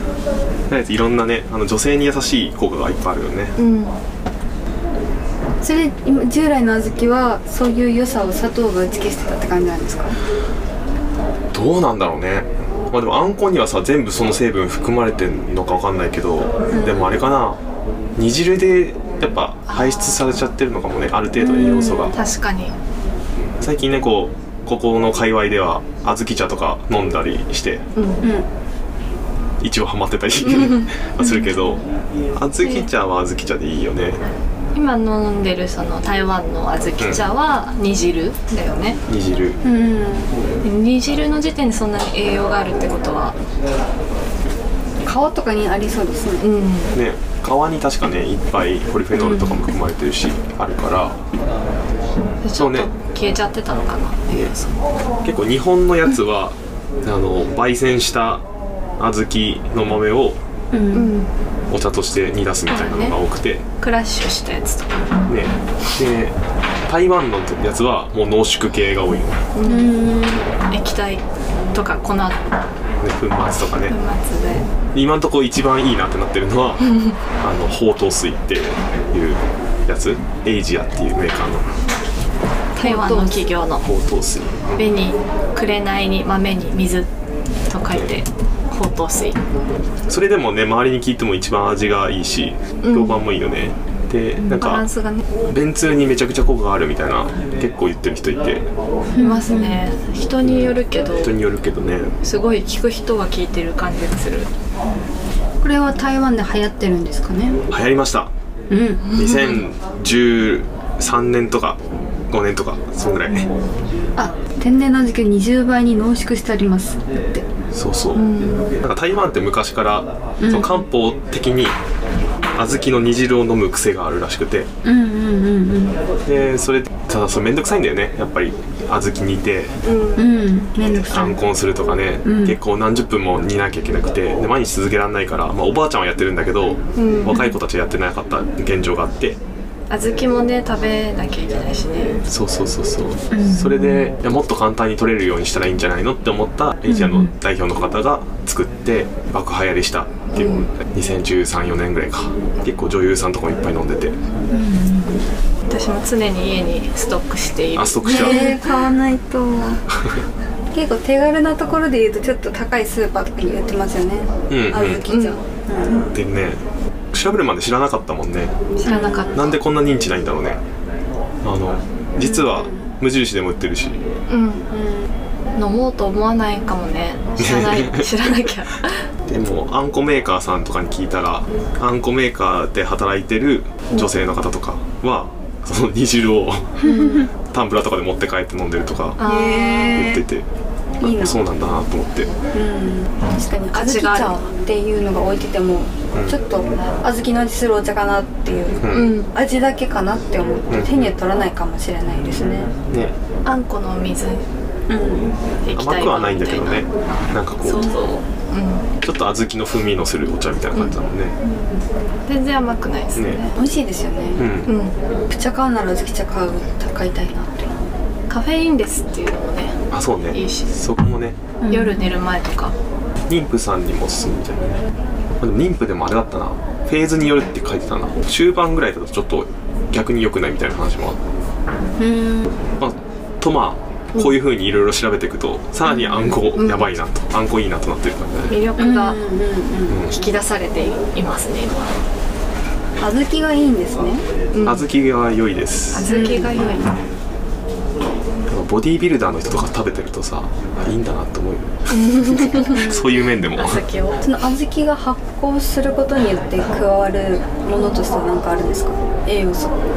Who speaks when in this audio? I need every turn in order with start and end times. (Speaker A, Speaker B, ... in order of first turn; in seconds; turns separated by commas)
Speaker A: 0.7-3.6, Speaker B: 3.6-4.0, Speaker C: 5.6-10.2, Speaker A: 11.5-17.6, Speaker C: 16.7-17.2, Speaker A: 18.2-22.2, Speaker B: 21.5-22.7, Speaker C: 21.6-22.1, Speaker A: 23.6-27.8, Speaker B: 27.9-28.2, Speaker C: 28.2-28.5, Speaker A: 29.6-31.8, Speaker B: 30.5-30.9, Speaker A: 32.4-34.2, Speaker B: 34.7-39.0, Speaker A: 39.1-39.6, Speaker C: 39.6-40.4, Speaker B: 40.6-43.4, Speaker C: 45.0-46.5, Speaker B: 46.4-46.9, Speaker A: 46.9-51.2, Speaker B: 49.1-49.6, Speaker B: 52.4-54.7, Speaker A: 52.5-52.9, Speaker A: 55.2-58.4, Speaker A: 59.0-60.4, Speaker C: 60.7-61.2, Speaker B: 60.9-61.3, Speaker A: 61.7-63.6, Speaker B: 62.7-63.2, Speaker B: 63.8-65.1, Speaker A: 65.3-66.3, Speaker A: 66.9-69.4, Speaker B: 69.5-70.0, Speaker C: 69.6-70.5, Speaker B: 70.7-72.4, Speaker A: 73.0-73.9, Speaker B: 73.9-74.7, Speaker A: 74.9-81.7, Speaker C: 82.7-83.5, Speaker B: 82.8-83.8, Speaker A: 83.8-84.9, Speaker B: 84.7-87.1, Speaker B: 87.7-89.4, Speaker A: 87.9-88.2, Speaker A: 90.1-94.8, Speaker B: 92.8-93.2, Speaker B: 94.4-95.2, Speaker A: 95.5-98.6, Speaker C: 99.1-99.8, Speaker B: 99.2-101.3, Speaker A: 100.4-102.1, Speaker B: 102.2-104.5, Speaker C: 105.6-107.6, Speaker A: 107.7-108.3, Speaker C: 108.7-109.1, Speaker A: 109.1-113.5, Speaker B: 109.2-109.6, Speaker C: 114.2-117.5, Speaker A: 117.7-121.8, Speaker B: 118.1-118.7, Speaker C: 120.4-120.7, Speaker A: 122.5-124.7, Speaker C: 124.8-126.0, Speaker A: 126.2-129.7, Speaker B: 129.8-130.3, Speaker C: 130.1-131.4, Speaker A: 130.8-139.4, Speaker C: 132.2-132.6, Speaker B: 136.9-137.5, Speaker B: 139.9-142.2, Speaker A: 142.3-154.2, Speaker C: 143.3-144.1, Speaker C: 146.9-147.3, Speaker B: 150.3-150.7, Speaker C: 154.5-155.2, Speaker B: 155.7-158.6, Speaker A: 157.7-158.6, Speaker C: 158.0-159.8, Speaker C: 160.7-166.1, Speaker A: 164.5-165.0, Speaker B: 165.1-165.4, Speaker A: 166.1-166.6, Speaker A: 167.1-168.5, Speaker B: 168.8-169.6, Speaker C: 168.8-169.3, Speaker A: 169.3-170.6, Speaker A: 171.4-174.0, Speaker C: 172.2-172.9, Speaker B: 174.3-174.7, Speaker C: 174.7-175.1, Speaker B: 175.5-179.1, Speaker A: 177.4-178.1, Speaker A: 179.3-189.2, Speaker C: 186.8-187.3, Speaker B: 189.2-190.1, Speaker C: 189.2-190.2, Speaker A: 189.9-190.4, Speaker C: 191.0-191.4, Speaker A: 191.0-192.3, Speaker C: 192.5-202.7, Speaker B: 193.7-194.4, Speaker A: 198.8-199.2, Speaker B: 198.9-199.3, Speaker A: 200.7-201.1, Speaker A: 202.9-203.1, Speaker B: 203.4-204.4, Speaker C: 204.9-205.3, Speaker B: 205.6-206.9, Speaker A: 205.7-208.1, Speaker B: 207.6-208.9, Speaker A: 209.0-211.4, Speaker C: 211.4-211.8, Speaker B: 212.3-213.5, Speaker A: 213.1-213.4, Speaker C: 213.5-214.5, Speaker A: 214.4-214.7, Speaker B: 214.7-214.9, Speaker C: 215.3-217.8, Speaker B: 218.3-220.7, Speaker A: 219.9-221.4, Speaker C: 221.6-222.2, Speaker B: 221.7-222.7, Speaker A: 223.3-224.8, Speaker A: 225.4-231.2, Speaker C: 232.0-232.6, Speaker A: 232.8-238.6, Speaker B: 235.9-236.9, Speaker B: 238.5-239.2, Speaker C: 238.8-240.0, Speaker A: 239.9-240.2, Speaker B: 240.1-242.0, Speaker C: 243.0-244.2, Speaker B: 244.5-244.9, Speaker A: 244.6-246.2, Speaker B: 245.9-246.9, Speaker C: 246.0-247.0, Speaker A: 248.5-253.8, Speaker B: 251.9-252.8, Speaker C: 252.6-253.2, Speaker B: 253.5-254.2, Speaker C: 254.2-259.8